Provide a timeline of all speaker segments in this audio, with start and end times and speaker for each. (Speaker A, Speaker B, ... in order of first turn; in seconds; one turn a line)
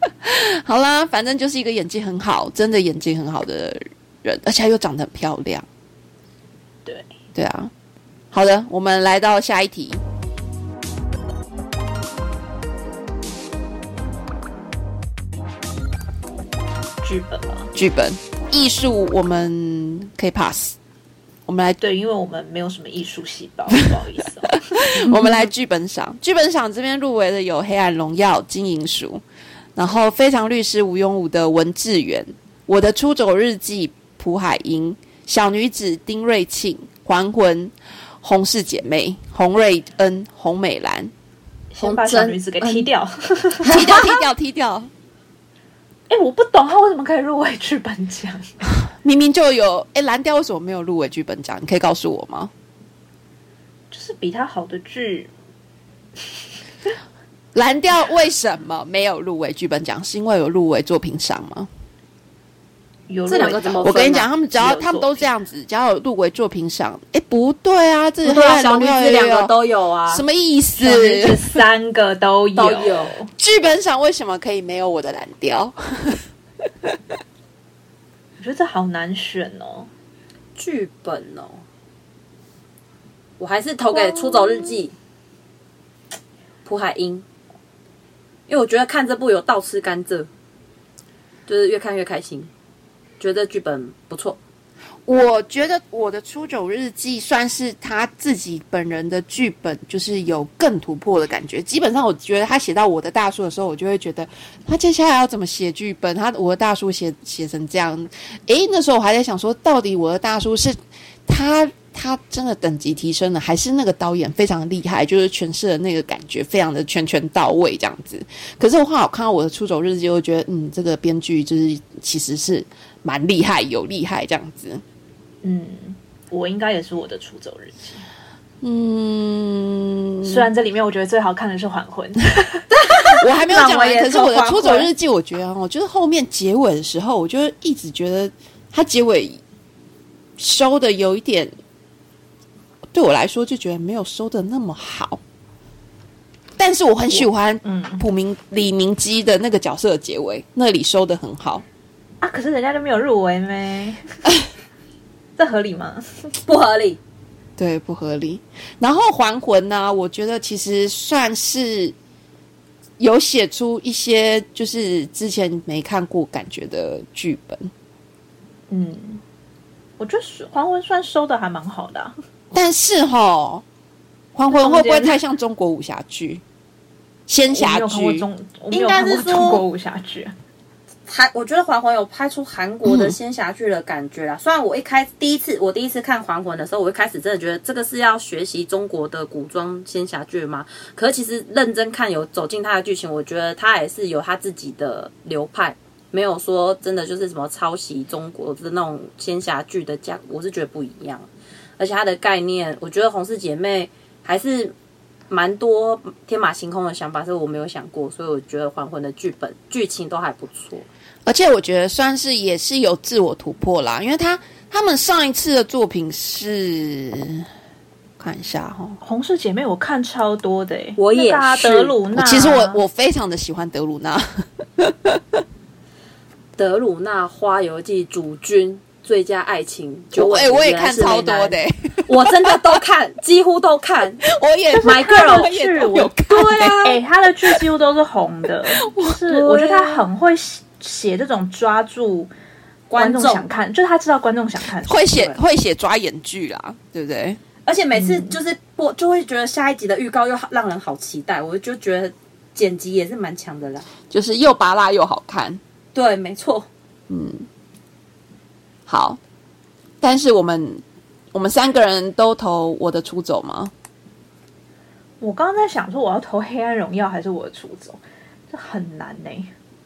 Speaker A: 0.2-5.7
Speaker B: 6.9-7.1
Speaker A: 7.3-7.7
Speaker A: 8.3-10.0
Speaker B: 17.0-17.7
Speaker A: 17.7-20.8
Speaker A: 21.5-21.8
Speaker B: 21.8-24.9
Speaker A: 24.5-29.2
Speaker C: 25.1-25.4
Speaker A: 29.8-41.1
Speaker B: 41.7-43.8
Speaker C: 41.8-42.9
Speaker C: 43.6-44.1
Speaker A: 43.7-44.9
Speaker B: 46.1-48.7
Speaker A: 48.9-52.5
Speaker B: 53.9-55.3
Speaker A: 57.5-61.7
Speaker B: 63.1-63.9
Speaker C: 63.3-64.3
Speaker A: 63.8-69.5
Speaker B: 64.5-65.3
Speaker C: 68.2-70.2
Speaker A: 70.1-71.6
Speaker B: 70.8-73.3
Speaker C: 72.6-73.1
Speaker A: 73.4-76.2
Speaker B: 78.4-79.9
Speaker C: 80.6-81.6
Speaker C: 83.4-84.9
Speaker A: 84.0-84.8
Speaker C: 86.7-87.2
Speaker C: 88.5-90.3
Speaker C: 91.5-92.5
Speaker C: 93.2-94.4
Speaker A: 95.1-124.8
Speaker B: 125.4-128.0
Speaker A: 128.6-130.5
Speaker B: 130.2-134.9
Speaker C: 132.8-134.5
Speaker A: 133.1-139.4
Speaker A: 140.4-141.5
Speaker A: 142.9-145.2
Speaker A: 146.6-151.6
Speaker B: 147.1-148.0
Speaker B: 152.2-154.2
Speaker B: 155.4-156.3
Speaker C: 156.5-157.0
Speaker A: 157.6-161.9
Speaker A: 163.0-167.7
Speaker B: 168.7-169.2
Speaker B: 170.0-172.2
Speaker A: 172.5-173.6
Speaker A: 174.3-176.4
Speaker B: 174.5-175.2
Speaker A: 177.3-178.3
Speaker B: 177.5-180.3
Speaker C: 178.7-179.6
Speaker C: 181.1-204.8
Speaker A: 182.8-183.2
Speaker C: 205.3-210.9
Speaker A: 211.3-217.5
Speaker A: 218.2-219.0
Speaker B: 219.0-222.8
Speaker C: 221.0-222.0
Speaker A: 222.1-225.4
Speaker C: 226.6-234.2
Speaker A: 230.1-232.8
Speaker A: 234.3-236.9
Speaker B: 234.7-236.2
Speaker C: 234.8-235.5
Speaker C: 236.3-237.0
Speaker B: 236.8-242.3
Speaker A: 238.8-239.2
Speaker C: 239.2-240.1
Speaker C: 242.9-243.5
Speaker B: 242.9-245.1
Speaker A: 244.8-247.4
Speaker C: 247.7-253.9
Speaker B: 248.0-248.4
Speaker A: 254.1-255.6
Speaker C: 255.9-256.7
Speaker A: 257.1-257.5
Speaker A: 258.9-259.2
Speaker A: 260.0-263.7
Speaker B: 265.2-268.0
Speaker B: 268.5-269.5